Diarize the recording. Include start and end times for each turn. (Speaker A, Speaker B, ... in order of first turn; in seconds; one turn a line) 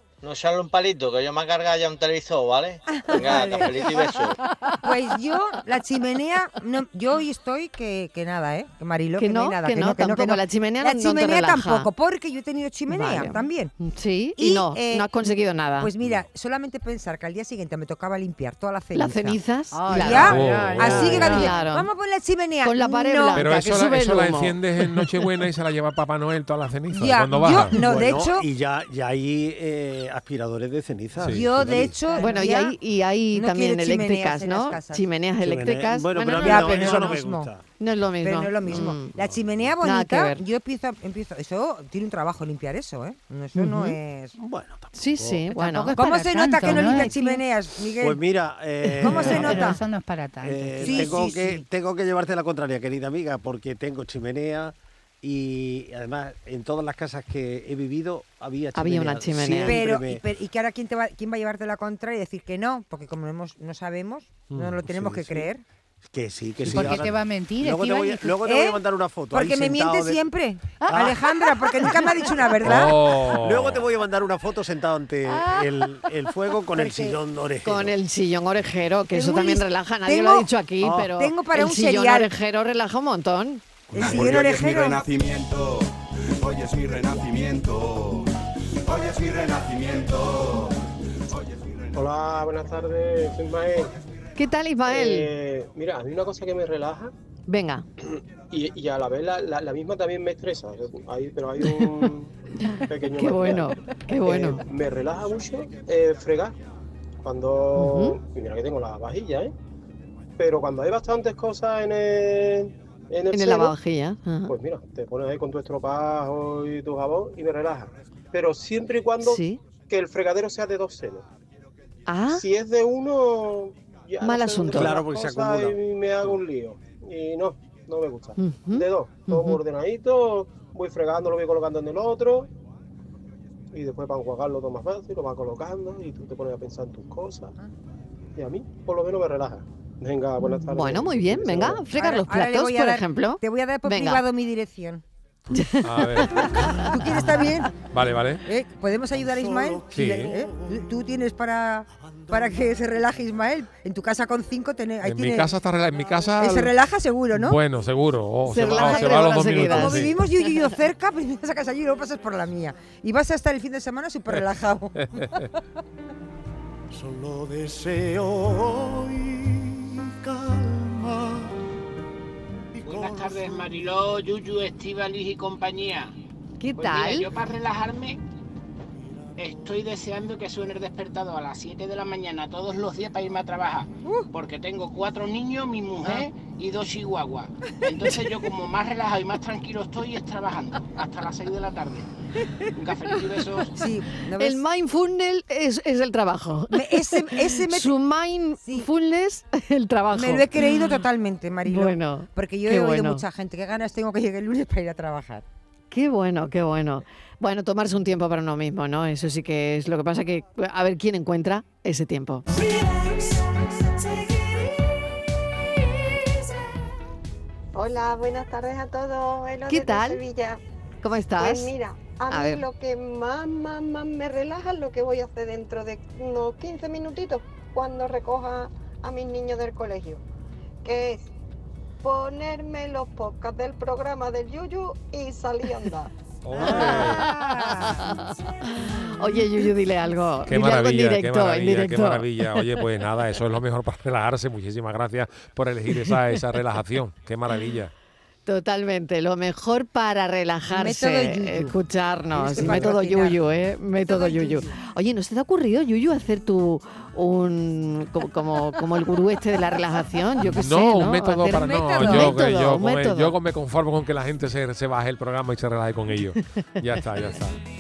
Speaker A: 0.2-4.4
Speaker B: 2.9-3.9
Speaker C: 3.2-4.8
Speaker B: 4.8-13.7
Speaker D: 9.2-11.9
Speaker D: 12.9-15.9
Speaker B: 14.4-15.1
Speaker B: 15.8-23.5
Speaker D: 18.9-21.9
Speaker C: 19.7-21.6
Speaker E: 20.2-21.4
Speaker D: 22.6-24.6
Speaker E: 23.3-27.8
Speaker B: 26.9-28.5
Speaker F: 27.7-32.0
Speaker E: 31.2-31.8
Speaker B: 31.3-32.8
Speaker D: 32.2-37.2
Speaker C: 32.2-32.5
Speaker B: 33.3-35.0
Speaker F: 35.4-37.6
Speaker B: 36.3-37.5
Speaker D: 37.8-39.1
Speaker B: 38.2-44.3
Speaker F: 39.2-39.7
Speaker D: 39.8-40.4
Speaker D: 43.5-44.0
Speaker F: 44.4-45.5
Speaker D: 44.9-45.9
Speaker C: 45.5-47.4
Speaker B: 46.0-48.2
Speaker F: 46.7-47.1
Speaker F: 48.0-49.8
Speaker B: 49.0-49.8
Speaker C: 49.0-51.6
Speaker F: 50.4-60.2
Speaker B: 50.8-51.3
Speaker D: 58.7-59.8
Speaker B: 59.6-65.6
Speaker E: 64.5-64.8
Speaker F: 64.8-65.5
Speaker F: 66.0-70.2
Speaker B: 66.7-67.0
Speaker C: 66.7-68.3
Speaker B: 68.4-68.8
Speaker B: 69.3-73.0
Speaker F: 70.9-71.3
Speaker E: 72.6-73.9
Speaker F: 72.6-78.0
Speaker C: 75.3-76.0
Speaker B: 76.7-77.2
Speaker D: 77.6-83.6
Speaker B: 79.1-82.3
Speaker B: 83.9-85.0
Speaker F: 83.9-84.3
Speaker G: 84.6-85.8
Speaker G: 86.4-88.2
Speaker G: 88.8-90.7
Speaker H: 91.9-93.9
Speaker D: 94.4-95.3
Speaker H: 94.9-97.1
Speaker D: 97.5-97.9
Speaker H: 98.5-102.3
Speaker D: 101.6-102.1
Speaker D: 102.6-104.6
Speaker H: 102.9-106.5
Speaker H: 107.2-109.5
Speaker D: 107.8-108.2
Speaker H: 110.4-113.8
Speaker D: 113.3-114.5
Speaker H: 114.5-121.2
Speaker D: 119.2-119.6
Speaker D: 122.1-122.4
Speaker H: 122.3-132.5
Speaker D: 124.2-125.0
Speaker F: 124.7-126.4
Speaker D: 128.4-129.6
Speaker H: 133.7-137.6
Speaker H: 138.4-141.9
Speaker D: 140.4-144.2
Speaker B: 141.9-145.0
Speaker D: 145.5-146.9
Speaker E: 145.8-146.6
Speaker B: 146.2-147.7
Speaker E: 147.8-148.4
Speaker B: 148.4-155.6
Speaker E: 149.9-150.3
Speaker E: 155.0-156.7
Speaker B: 156.4-157.6
Speaker E: 157.3-160.1
Speaker D: 158.4-160.1
Speaker B: 158.5-165.5
Speaker E: 164.9-165.4
Speaker I: 172.8-176.1
Speaker D: 176.6-177.3
Speaker I: 176.8-178.2
Speaker I: 179.4-192.1
Speaker I: 192.7-193.9
Speaker B: 193.7-194.6
Speaker D: 194.4-201.0
Speaker B: 196.7-198.0
Speaker B: 198.6-198.9
Speaker B: 200.1-205.4
Speaker D: 201.7-203.2
Speaker D: 205.9-212.5
Speaker J: 217.7-220.6
Speaker D: 219.7-220.2
Speaker D: 221.0-221.7
Speaker J: 221.4-230.2
Speaker D: 222.3-222.6
Speaker J: 230.8-231.3
Speaker J: 232.0-236.1
Speaker E: 236.4-237.3
Speaker B: 236.5-238.4
Speaker D: 236.6-242.6
Speaker E: 240.5-247.9
Speaker D: 248.4-263.3
Speaker B: 250.7-251.8
Speaker B: 252.3-253.4
Speaker B: 254.0-254.8
Speaker E: 260.4-267.6
Speaker B: 261.4-262.4